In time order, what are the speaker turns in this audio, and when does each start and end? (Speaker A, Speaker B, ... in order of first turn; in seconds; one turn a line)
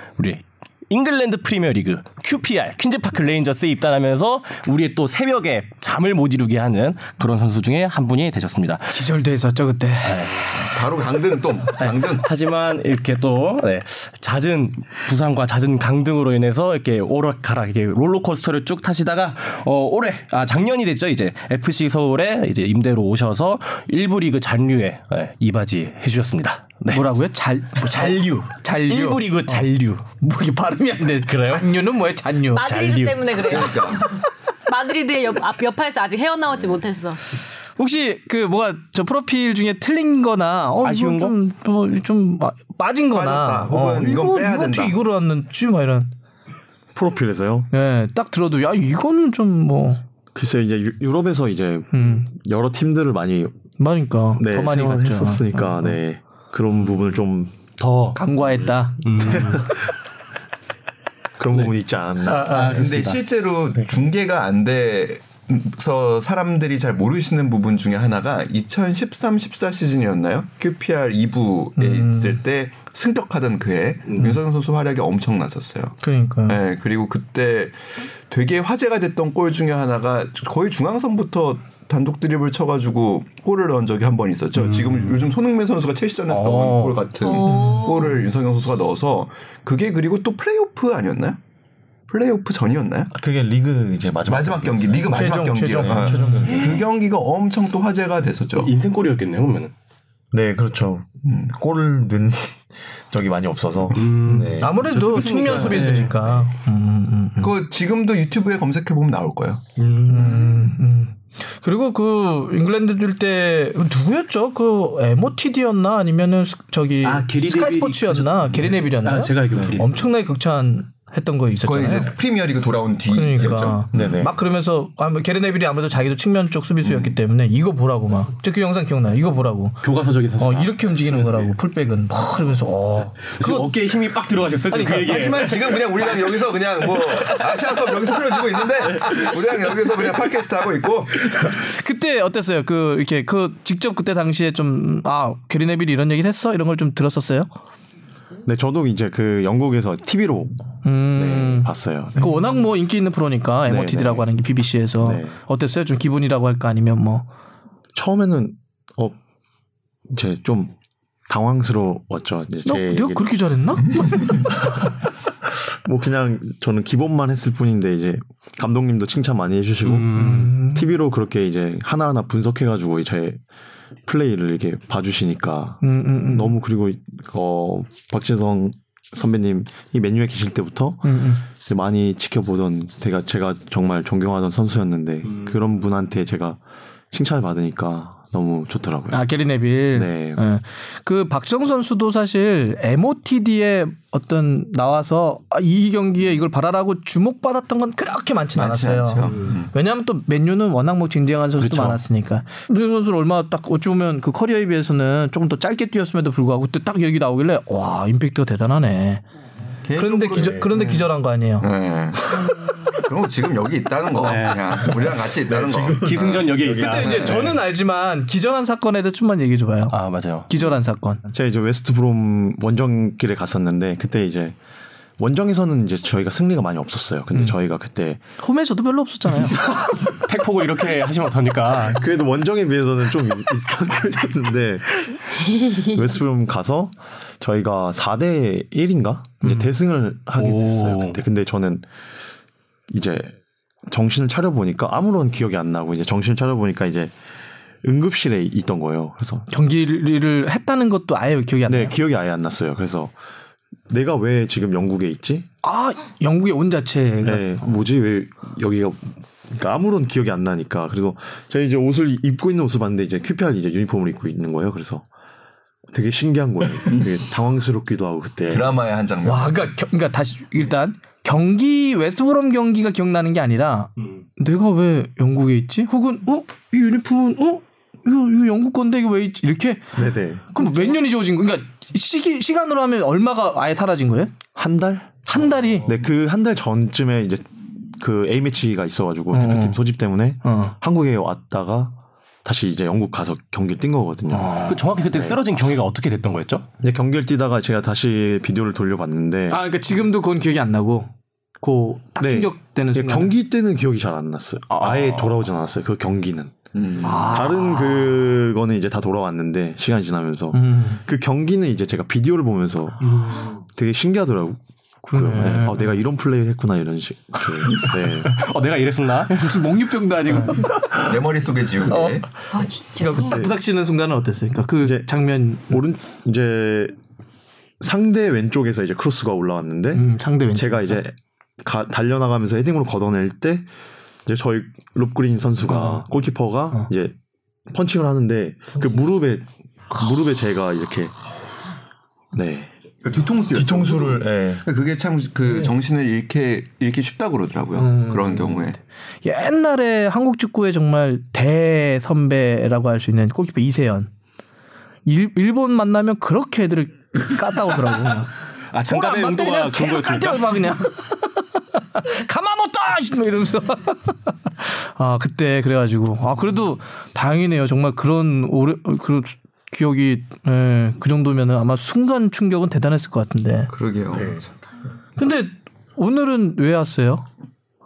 Speaker A: 0.2-9.0
Speaker B: 8.9-10.3
Speaker A: 10.0-10.5
Speaker C: 10.5-12.3
Speaker A: 11.8-27.1
Speaker B: 26.9-29.7
Speaker A: 27.8-30.0
Speaker B: 30.2-32.7
Speaker A: 31.2-31.7
Speaker D: 32.5-37.2
Speaker A: 32.6-33.7
Speaker C: 33.4-34.0
Speaker B: 37.8-46.1
Speaker A: 40.8-41.3
Speaker C: 43.1-45.0
Speaker E: 46.9-47.7
Speaker B: 47.7-50.0
Speaker E: 50.3-53.5
Speaker B: 51.9-52.3
Speaker B: 53.8-56.0
Speaker E: 54.4-57.6
Speaker A: 57.8-58.2
Speaker B: 58.1-59.8
Speaker A: 59.0-59.7
Speaker E: 61.4-63.1
Speaker B: 62.3-62.7
Speaker A: 62.4-63.2
Speaker C: 62.6-91.4
Speaker B: 71.8-72.4
Speaker B: 76.0-76.6
Speaker A: 84.5-85.2
Speaker A: 86.3-87.0
Speaker D: 87.2-88.1
Speaker B: 87.4-88.0
Speaker C: 92.1-93.1
Speaker E: 93.1-96.8
Speaker C: 94.3-98.7
Speaker B: 95.1-96.7
Speaker A: 96.4-96.8
Speaker A: 98.5-99.7
Speaker E: 100.3-105.9
Speaker A: 103.9-106.2
Speaker B: 104.3-107.5
Speaker C: 107.4-109.6
Speaker A: 109.8-110.6
Speaker B: 110.0-122.1
Speaker A: 117.0-120.0
Speaker C: 121.6-124.1
Speaker B: 123.1-129.8
Speaker E: 123.9-124.3
Speaker A: 129.8-131.5
Speaker B: 130.4-133.7
Speaker A: 133.3-136.2
Speaker B: 134.7-135.2
Speaker C: 135.0-141.5
Speaker B: 141.4-147.5
Speaker E: 148.4-152.5
Speaker B: 150.8-157.3
Speaker E: 153.7-154.2
Speaker E: 155.0-155.4
Speaker E: 157.9-159.2
Speaker E: 160.1-160.7
Speaker E: 161.3-163.3
Speaker B: 162.6-164.5
Speaker E: 165.5-173.4
Speaker A: 169.8-170.5
Speaker B: 170.1-170.8
Speaker E: 174.1-186.6
Speaker B: 175.8-176.5
Speaker B: 181.0-181.4
Speaker E: 187.1-189.2
Speaker B: 189.1-209.2
Speaker E: 189.9-190.4
Speaker C: 198.5-199.7
Speaker A: 201.7-201.9
Speaker C: 209.8-216.5
Speaker B: 210.0-211.7
Speaker A: 214.2-217.6
Speaker E: 215.4-217.3
Speaker B: 216.8-221.2
Speaker C: 217.0-217.3
Speaker A: 219.9-220.5
Speaker E: 221.3-224.6
Speaker E: 225.2-228.2
Speaker B: 228.4-229.7
Speaker A: 229.7-232.0
Speaker E: 231.8-241.9
Speaker D: 235.5-235.9
Speaker B: 239.4-239.7
Speaker A: 240.4-241.2
Speaker E: 242.9-243.3
Speaker E: 243.9-247.1
Speaker E: 247.8-249.5
Speaker B: 249.5-251.9
Speaker E: 251.7-253.1
Speaker E: 253.9-255.5
Speaker B: 255.6-257.6
Speaker E: 257.2-265.1
Speaker E: 265.9-268.7
Speaker C: 268.5-269.6
Speaker B: 269.2-279.9
Speaker E: 279.9-280.8
Speaker B: 280.5-284.3
Speaker E: 284.6-285.2
Speaker B: 285.2-285.9
Speaker E: 285.8-295.4
Speaker B: 289.3-289.8
Speaker B: 290.4-290.7
Speaker B: 294.3-294.8
Speaker A: 294.7-296.6
Speaker E: 296.8-299.6
Speaker B: 299.5-303.3
Speaker E: 302.2-314.6
Speaker A: 304.7-305.4
Speaker C: 306.7-307.3
Speaker B: 307.0-308.1
Speaker B: 310.5-311.0
Speaker A: 313.0-313.6
Speaker B: 315.0-315.9
Speaker E: 315.1-318.3
Speaker A: 317.6-319.7
Speaker B: 319.3-320.8
Speaker C: 320.9-322.3
Speaker B: 321.9-322.2
Speaker D: 322.5-323.3
Speaker B: 322.9-325.8
Speaker E: 323.1-323.5
Speaker E: 324.8-325.1
Speaker E: 325.7-326.9
Speaker E: 327.8-333.7
Speaker B: 329.9-331.0
Speaker E: 334.2-337.1
Speaker B: 335.7-336.0
Speaker E: 337.7-341.1
Speaker E: 342.3-342.7
Speaker C: 343.0-348.8
Speaker E: 343.5-344.6
Speaker B: 347.8-348.5
Speaker B: 349.2-354.1
Speaker B: 355.0-358.3
Speaker A: 358.7-360.6
Speaker B: 358.9-361.4
Speaker B: 361.9-373.7
Speaker C: 373.7-374.4
Speaker B: 375.2-377.2